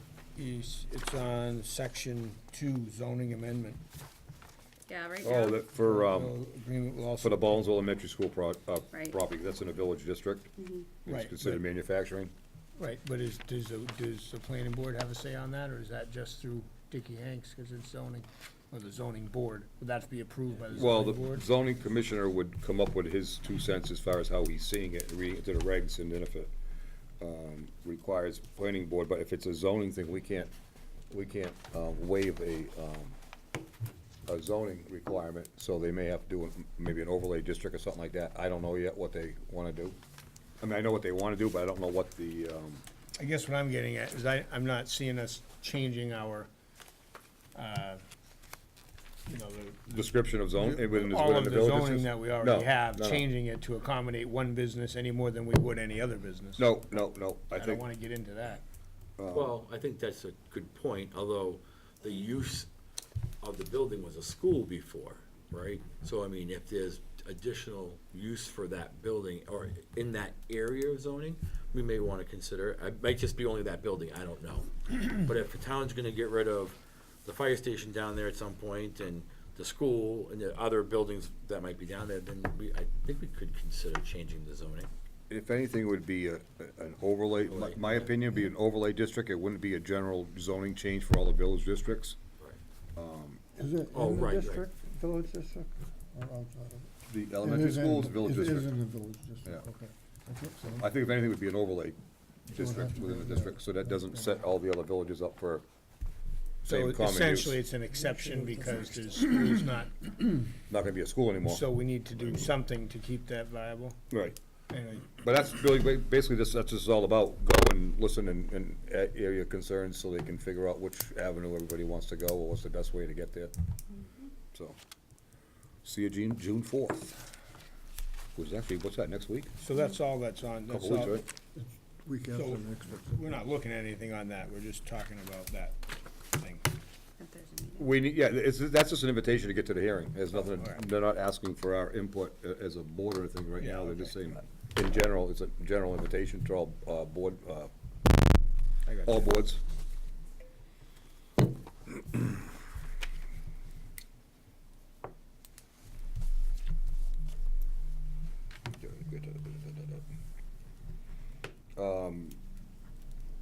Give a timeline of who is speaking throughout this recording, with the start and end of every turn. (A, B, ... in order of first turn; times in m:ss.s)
0:00.3-0:03.8 A
0:04.9-0:05.7 B
0:05.2-0:06.4 C
0:05.8-0:07.7 A
0:07.2-0:10.5 C
0:08.9-0:09.2 B
0:10.6-0:11.0 B
0:11.0-0:12.3 C
0:11.0-0:11.6 A
0:12.8-0:21.4 A
0:20.7-0:26.5 C
0:27.2-0:30.5 C
0:31.1-0:33.2 C
0:34.3-0:40.0 C
0:40.6-0:42.8 C
0:43.2-0:46.5 A
0:47.5-0:48.0 A
0:49.3-0:58.6 A
0:49.9-0:53.2 C
0:56.6-0:57.8 C
0:59.2-0:59.5 C
0:59.3-1:02.7 D
1:03.4-1:24.9 D
1:25.3-1:32.2 C
1:27.5-1:28.1 D
1:33.0-1:33.4 C
1:33.5-1:40.8 E
1:33.9-1:34.6 D
1:37.1-1:38.8 C
1:40.6-1:42.0 C
1:42.5-1:45.6 C
1:42.5-1:44.1 E
1:46.6-1:50.5 A
1:46.6-1:47.6 C
1:48.0-1:48.9 E
1:50.7-1:51.6 C
1:51.4-1:54.0 A
1:54.1-1:54.4 C
1:54.7-1:55.1 A
1:55.1-2:03.5 C
2:04.5-2:04.8 C
2:05.8-2:07.2 C
2:08.4-2:09.5 C
2:09.6-2:11.2 A
2:10.7-2:11.2 C
2:12.0-2:13.2 E
2:12.3-2:15.8 A
2:16.3-2:16.6 A
2:17.2-2:18.0 B
2:17.8-2:27.7 C
2:23.6-2:24.2 A
2:28.8-2:29.3 A
2:29.0-2:29.6 C
2:38.7-2:40.0 C
2:41.8-2:42.4 C